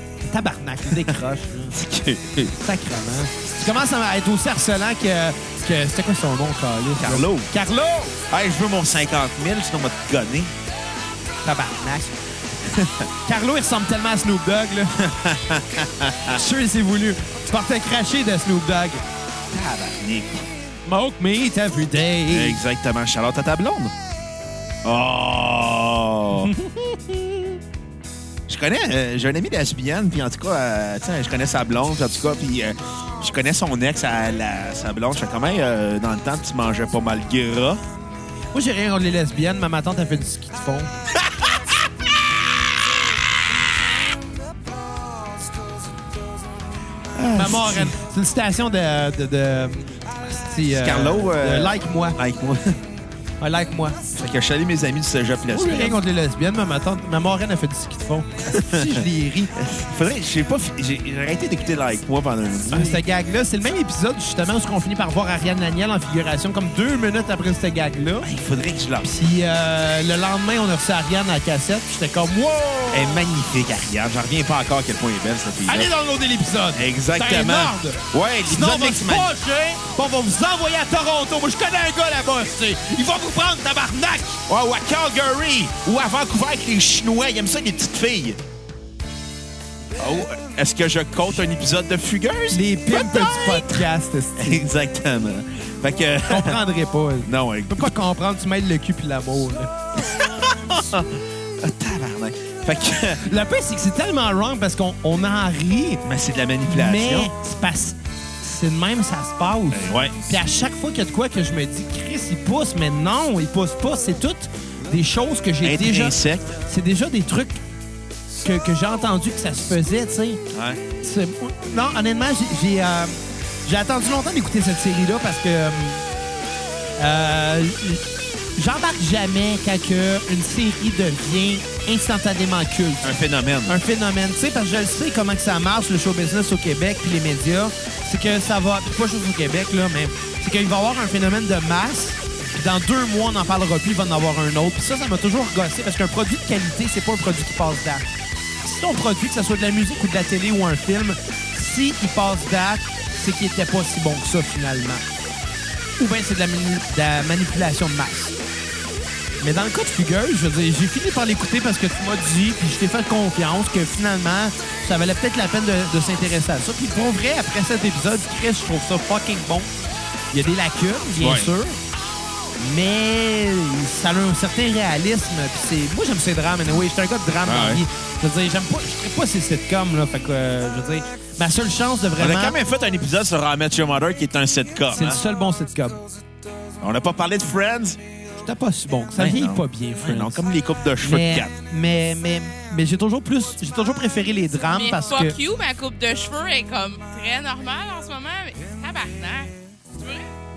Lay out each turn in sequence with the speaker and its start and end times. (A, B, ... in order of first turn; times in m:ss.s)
0:00.2-0:01.8 A
0:01.7-0:02.5 B
0:02.6-0:08.2 A
0:07.0-0:07.5 B
0:08.3-0:10.5 B
0:11.4-0:12.1 A
0:12.6-0:13.0 B
0:13.2-0:15.0 A
0:15.0-0:16.4 B
0:16.3-0:19.0 A
0:19.5-0:20.5 B
0:20.8-0:22.6 A
0:22.3-0:23.9 B
0:24.8-0:26.5 B
0:26.3-0:27.5 A
0:28.5-0:37.8 B
0:38.5-0:40.9 A
0:47.2-0:48.0 B
0:47.3-0:52.2 A
0:50.7-0:52.8 B
0:53.4-0:54.0 A
0:54.1-0:56.0 B
0:55.5-0:59.6 A
0:58.5-0:59.0 B
0:59.6-1:03.0 B
1:02.7-1:08.3 A
1:08.2-1:09.1 B
1:09.0-1:13.2 A
1:12.9-1:15.9 B
1:15.7-1:24.4 A
1:16.7-1:19.3 B
1:24.5-1:28.4 B
1:30.0-1:36.6 B
1:32.5-1:34.7 A
1:36.3-1:39.7 A
1:37.2-1:37.9 B
1:40.0-1:43.2 B
1:43.2-1:46.0 A
1:46.0-1:47.3 B
1:46.7-1:56.2 A
1:49.7-1:50.2 B
1:55.6-1:56.5 B
1:56.7-1:57.6 A
1:58.4-2:00.4 A
2:00.5-2:00.8 B
2:01.0-2:06.0 A
2:07.0-2:08.0 A
2:08.6-2:13.1 A
2:13.0-2:13.8 B
2:13.6-2:28.0 A
2:28.6-2:35.0 A
2:36.0-2:38.4 A
2:39.4-2:49.7 A
2:50.3-2:51.8 A
2:51.2-2:51.5 B
2:52.6-3:02.6 A
2:57.4-2:57.8 B
3:02.2-3:05.2 B
3:04.9-3:06.0 A
3:06.8-3:08.0 B
3:08.4-3:10.4 A
3:09.2-3:11.5 B
3:11.0-3:15.4 A
3:14.7-3:20.3 C